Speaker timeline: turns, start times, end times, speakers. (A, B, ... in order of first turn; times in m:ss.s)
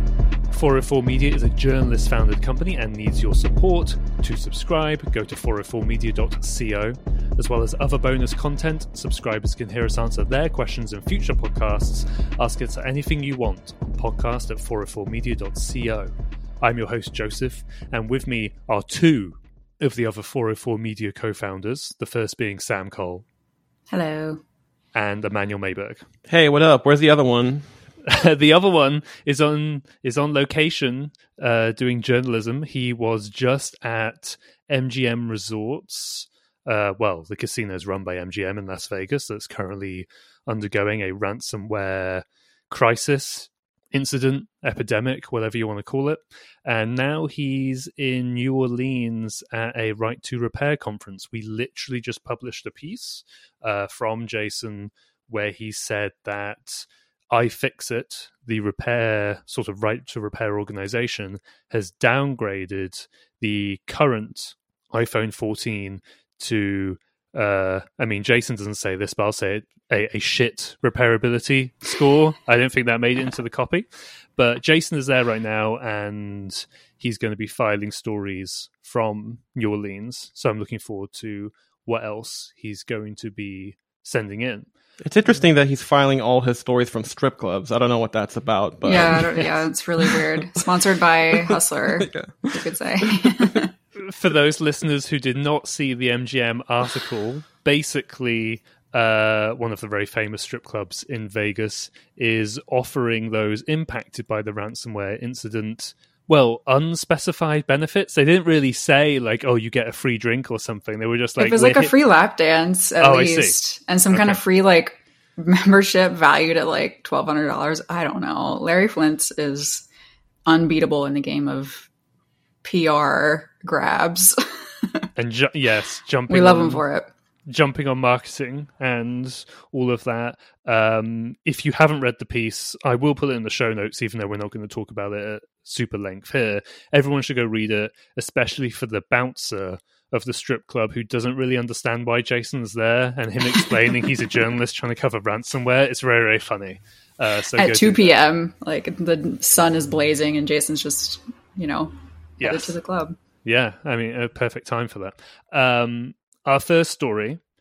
0:00.5-0:23.2 A
0:23.9-0:24.4 B
0:24.9-0:26.0 A
0:26.3-0:27.7 C
0:28.0-1:24.7 A
1:25.0-1:29.6 C
1:28.8-1:33.7 B
1:31.3-1:32.6 C
1:34.0-1:51.9 A
1:51.4-1:59.8 B
1:53.0-1:53.6 A
1:54.1-1:54.4 A
2:00.4-2:01.9 B
2:02.6-2:05.0 B
2:05.2-2:06.8 A
2:06.3-2:07.1 B
2:07.5-2:28.2 A
2:27.6-2:33.2 B
2:32.4-2:32.8 A
2:33.4-2:37.4 A